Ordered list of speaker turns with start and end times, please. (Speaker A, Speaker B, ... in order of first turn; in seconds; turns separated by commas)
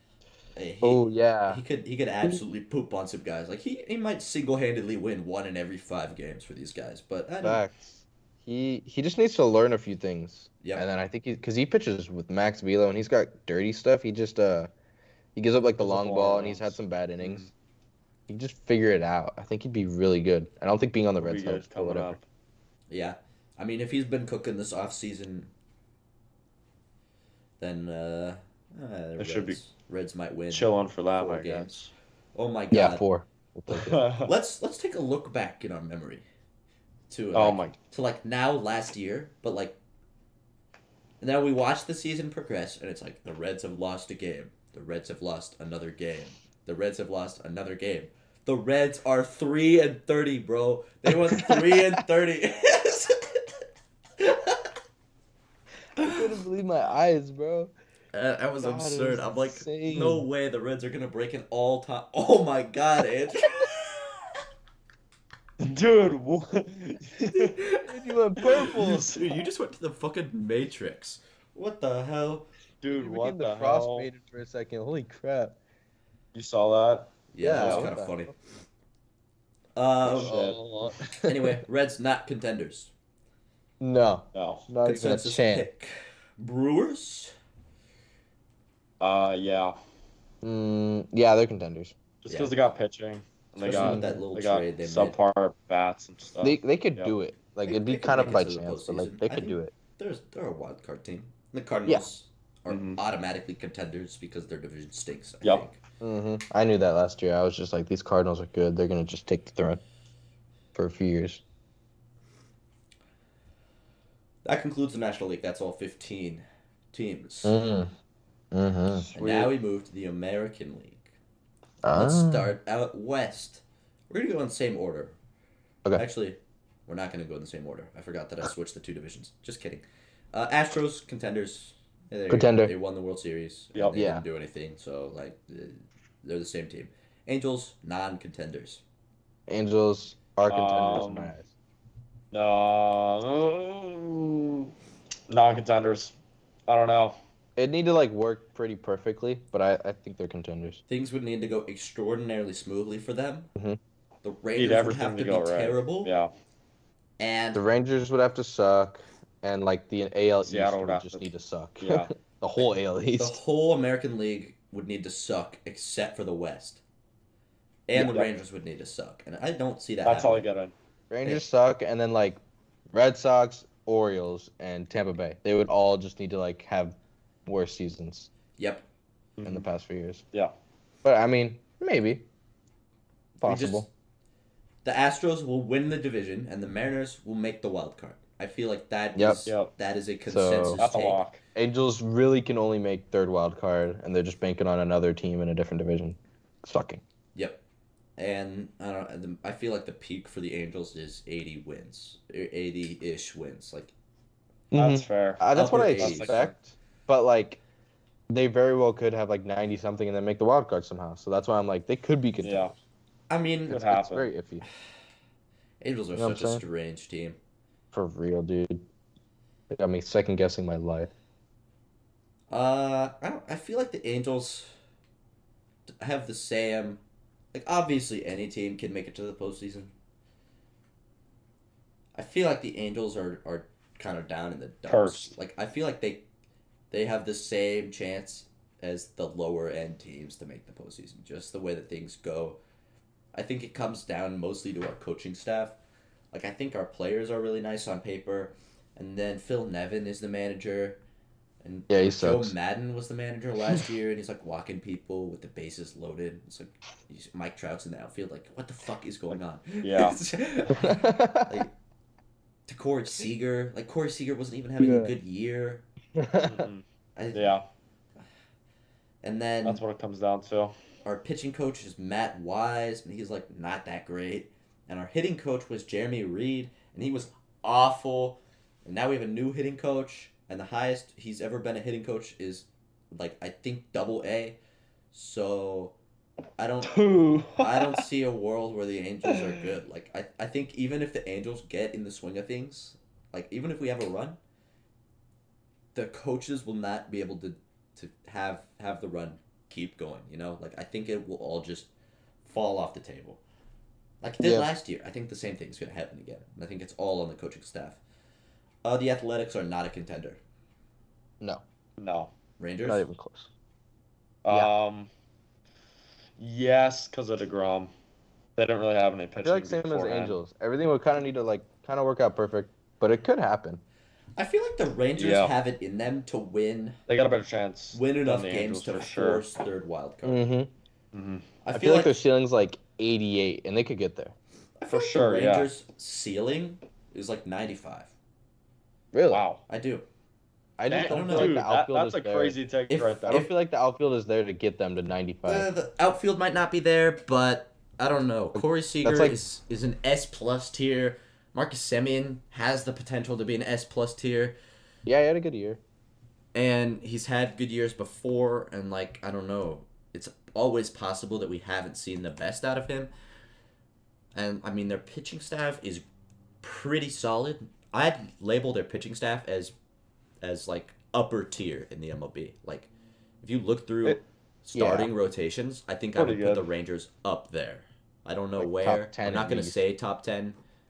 Speaker A: 0.6-7.6, Speaker B: 0.8-1.6, Speaker B: 7.4-14.7, Speaker B: 15.3-17.5, Speaker C: 15.8-17.5, Speaker B: 18.3-22.2, Speaker C: 21.2-22.2, Speaker A: 22.9-25.5, Speaker A: 27.6-31.8, Speaker C: 29.2-29.6, Speaker C: 30.5-31.9, Speaker A: 32.4-33.0, Speaker B: 32.7-34.0, Speaker C: 33.7-34.3, Speaker A: 34.2-36.3, Speaker A: 37.1-39.8, Speaker C: 37.4-37.8, Speaker A: 41.2-53.6, Speaker B: 51.3-52.0, Speaker A: 54.2-54.7, Speaker B: 56.0-57.7, Speaker A: 56.0-56.2, Speaker A: 58.1-64.2, Speaker B: 58.6-60.3, Speaker C: 65.6-67.6, Speaker B: 67.8-69.4, Speaker C: 68.4-68.8, Speaker A: 68.6-72.5, Speaker C: 72.8-74.1, Speaker B: 72.9-75.6, Speaker C: 76.3-77.9, Speaker A: 77.3-78.3, Speaker B: 77.4-78.3, Speaker A: 79.8-80.4, Speaker C: 80.1-81.0, Speaker B: 80.1-81.6, Speaker A: 81.2-82.9, Speaker B: 83.8-85.7, Speaker C: 84.3-84.7, Speaker A: 84.8-87.3, Speaker C: 89.0-89.8, Speaker B: 90.4-92.0, Speaker C: 92.2-97.2, Speaker A: 92.3-92.5, Speaker A: 93.6-95.2, Speaker B: 93.7-94.2, Speaker B: 96.4-99.7, Speaker A: 97.7-105.8, Speaker C: 102.7-103.0, Speaker B: 106.0-109.8, Speaker B: 110.8-111.4, Speaker A: 114.5-117.6, Speaker B: 117.4-117.9, Speaker B: 118.5-119.1, Speaker C: 118.9-119.5, Speaker A: 119.2-121.2, Speaker B: 121.8-122.6, Speaker A: 121.9-125.2, Speaker A: 125.9-138.8, Speaker B: 132.3-132.7, Speaker B: 133.9-134.2, Speaker B: 139.5-141.5, Speaker C: 140.5-141.3, Speaker C: 142.3-144.7, Speaker C: 145.3-146.2, Speaker C: 146.7-147.2, Speaker B: 147.6-150.8, Speaker A: 150.9-153.5, Speaker A: 154.2-156.1, Speaker C: 154.6-156.3, Speaker A: 157.2-157.6, Speaker B: 157.5-163.4, Speaker C: 160.4-161.2, Speaker C: 161.8-162.1, Speaker A: 163.2-166.8, Speaker A: 167.9-170.5, Speaker C: 168.0-168.3, Speaker C: 170.1-170.7, Speaker B: 171.1-172.4, Speaker B: 172.9-178.3, Speaker A: 178.6-178.9, Speaker C: 179.4-179.7, Speaker B: 179.4-180.2, Speaker B: 181.0-182.3, Speaker B: 183.4-183.9, Speaker A: 183.4-183.9, Speaker A: 184.8-191.2, Speaker B: 189.2-189.4, Speaker C: 189.5-189.7, Speaker B: 190.3-190.8, Speaker C: 190.8-191.4, Speaker B: 191.6-197.0, Speaker A: 197.3-197.6, Speaker A: 198.2-203.9, Speaker B: 204.7-207.6, Speaker C: 204.7-206.5, Speaker A: 205.5-206.5, Speaker B: 208.3-212.7, Speaker C: 212.4-212.7, Speaker A: 213.3-213.8, Speaker C: 213.7-214.3, Speaker B: 213.7-214.6, Speaker A: 215.8-217.4, Speaker B: 216.2-216.6, Speaker B: 217.9-218.9, Speaker B: 219.7-221.1, Speaker A: 222.5-224.7, Speaker A: 226.0-227.0, Speaker A: 227.5-229.9, Speaker A: 232.2-236.3, Speaker C: 234.9-235.3, Speaker A: 236.9-242.6, Speaker A: 243.3-245.8, Speaker A: 246.3-251.0, Speaker A: 251.6-261.7, Speaker B: 251.9-252.6, Speaker C: 259.8-260.2, Speaker B: 260.8-261.6, Speaker A: 262.7-265.9, Speaker B: 264.8-265.1, Speaker B: 266.2-266.7, Speaker C: 266.4-267.6, Speaker A: 267.2-267.6, Speaker A: 269.2-269.8, Speaker C: 269.6-270.8, Speaker A: 271.1-284.6, Speaker A: 285.1-285.9, Speaker A: 286.6-287.0, Speaker C: 286.9-288.0, Speaker A: 287.6-294.4, Speaker C: 289.3-289.5, Speaker A: 295.9-301.9, Speaker A: 302.4-303.4, Speaker A: 304.2-308.0, Speaker B: 304.4-304.7, Speaker A: 308.8-310.4, Speaker C: 312.0-312.3, Speaker A: 312.6-313.1, Speaker B: 312.9-313.5, Speaker C: 314.4-315.1, Speaker C: 316.4-317.9, Speaker C: 318.6-320.4, Speaker B: 319.4-323.8, Speaker A: 324.4-327.0, Speaker C: 325.2-325.6, Speaker C: 327.1-329.4, Speaker A: 327.9-330.4, Speaker B: 330.2-330.7, Speaker C: 331.1-331.5, Speaker A: 331.6-332.2, Speaker B: 331.8-334.4, Speaker A: 334.8-338.1, Speaker C: 334.9-335.7, Speaker B: 339.1-339.4, Speaker C: 339.3-339.6, Speaker A: 339.7-340.1, Speaker B: 340.8-342.6, Speaker C: 340.9-343.5, Speaker A: 341.0-341.6, Speaker A: 342.9-343.5, Speaker B: 343.3-345.7, Speaker A: 345.5-354.6, Speaker B: 348.6-349.4, Speaker B: 355.1-355.8, Speaker A: 356.5-363.1, Speaker A: 364.4-366.1, Speaker A: 366.6-369.8, Speaker A: 370.4-372.9, Speaker A: 373.4-380.6, Speaker B: 374.8-375.1, Speaker C: 376.1-376.7, Speaker B: 378.6-379.8